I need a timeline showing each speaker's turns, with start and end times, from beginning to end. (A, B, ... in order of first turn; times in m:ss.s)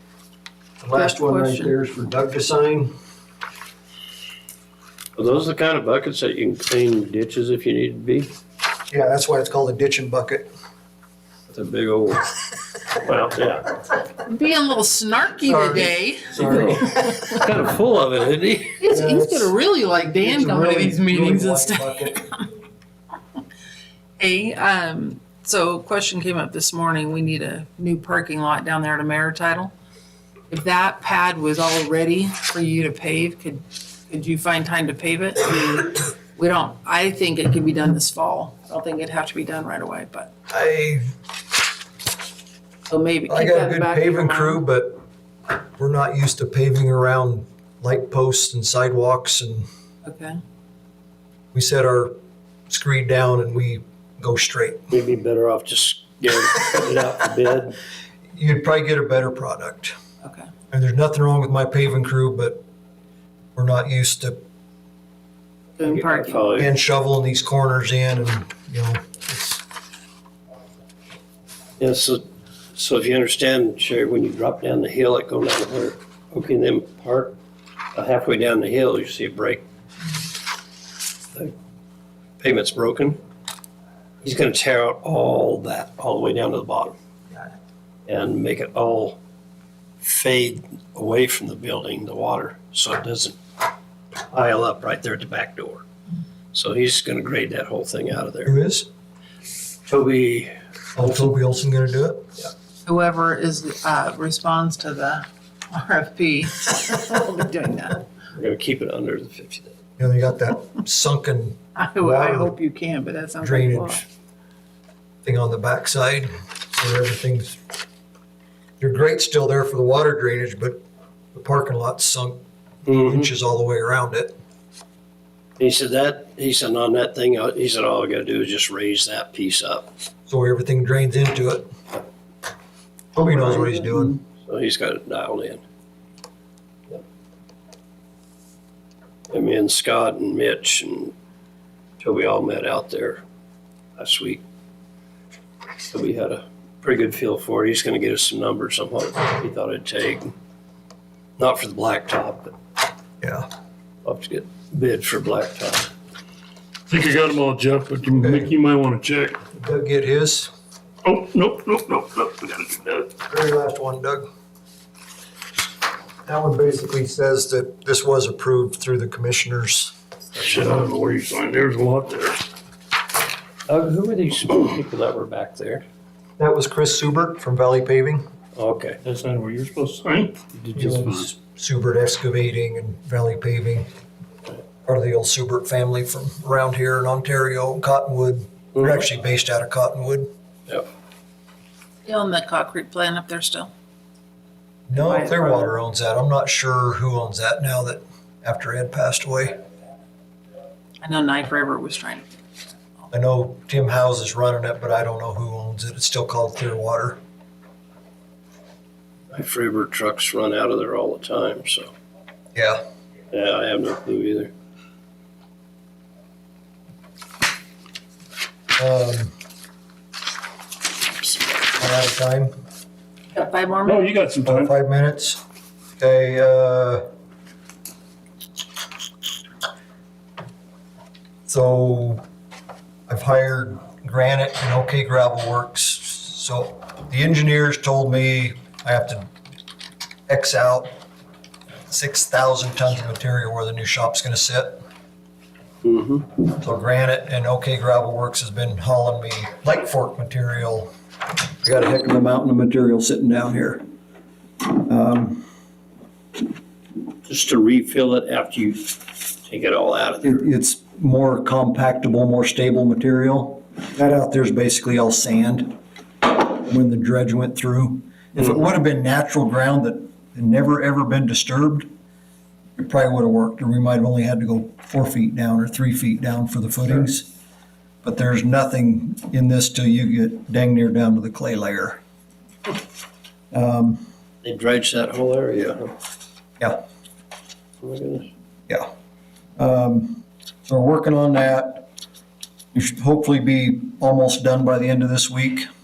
0:00.8-0:02.9 A
0:01.0-0:01.7 B
0:05.2-0:08.3 C
0:08.9-0:10.5 A
0:11.5-0:12.3 C
0:13.0-0:13.8 C
0:14.2-0:16.4 B
0:15.5-0:17.1 A
0:16.4-0:18.8 C
0:18.8-0:22.3 B
0:18.9-0:22.2 A
0:24.2-0:29.7 B
0:30.5-0:40.3 B
0:40.5-0:41.1 A
0:42.9-0:44.6 B
0:43.3-0:45.0 A
0:45.5-0:49.7 A
0:50.0-0:50.4 B
0:51.5-0:52.1 A
0:52.7-0:54.9 A
0:54.9-0:57.8 C
0:58.4-1:00.0 A
1:00.7-1:02.6 A
1:03.6-1:04.4 A
1:05.8-1:06.7 C
1:05.8-1:06.4 B
1:06.6-1:09.6 A
1:11.8-1:12.2 C
1:12.8-1:17.4 C
1:18.0-1:19.6 C
1:22.4-1:23.2 C
1:24.2-1:27.0 C
1:28.1-1:29.2 C
1:30.0-1:33.4 C
1:34.3-1:35.8 C
1:36.5-1:38.5 C
1:38.4-1:38.9 A
1:39.9-1:41.4 C
1:41.0-1:42.2 A
1:42.9-1:48.0 B
1:48.3-1:49.8 C
1:50.0-1:52.5 A
1:51.8-1:54.0 B
1:53.4-1:54.1 A
1:55.2-1:57.6 A
1:58.8-2:00.8 A
2:01.3-2:04.3 A
2:02.9-2:03.3 C
2:05.6-2:09.9 C
2:10.3-2:11.7 A
2:13.2-2:14.2 A
2:13.2-2:14.1 B
2:14.4-2:15.6 C
2:19.3-2:21.1 C
2:22.0-2:23.2 C
2:24.0-2:24.4 C
2:25.9-2:30.3 C
2:31.4-2:32.5 C
2:33.2-2:33.5 A
2:34.0-2:35.9 C
2:36.9-2:39.4 D
2:38.2-2:38.5 A
2:39.5-2:40.5 A
2:41.0-2:43.1 D
2:43.3-2:44.3 A
2:46.3-2:49.9 A
2:50.4-2:50.8 C
2:50.4-2:52.5 D
2:53.7-2:55.8 C
2:56.4-2:58.2 A
2:58.6-2:59.0 C
2:59.0-3:01.3 D
3:00.7-3:03.9 A
3:04.9-3:10.3 A
3:08.8-3:09.0 C
3:12.0-3:13.7 B
3:14.9-3:19.6 A
3:15.0-3:15.7 B
3:21.0-3:22.2 B
3:23.1-3:27.2 A
3:29.3-3:31.9 C
3:32.6-3:32.8 A
3:33.3-3:34.5 C
3:38.8-3:39.3 A
3:41.8-3:42.5 A
3:43.3-3:44.1 B
3:43.9-3:44.7 D
3:44.4-3:45.4 A
3:46.0-3:47.0 A
3:51.5-3:52.2 A
3:53.1-3:59.3 A
4:00.3-4:00.9 A
4:01.9-4:04.8 A
4:05.8-4:06.3 C
4:06.5-4:10.9 A
4:11.6-4:13.8 A
4:14.6-4:15.5 A
4:17.2-4:20.4 C
4:20.2-4:31.9 A
4:32.8-4:37.3 A
4:38.0-4:42.0 A
4:43.5-4:44.1 A
4:44.4-4:46.0 C
4:47.8-4:48.3 C
4:49.6-4:51.9 A
4:52.7-4:55.7 A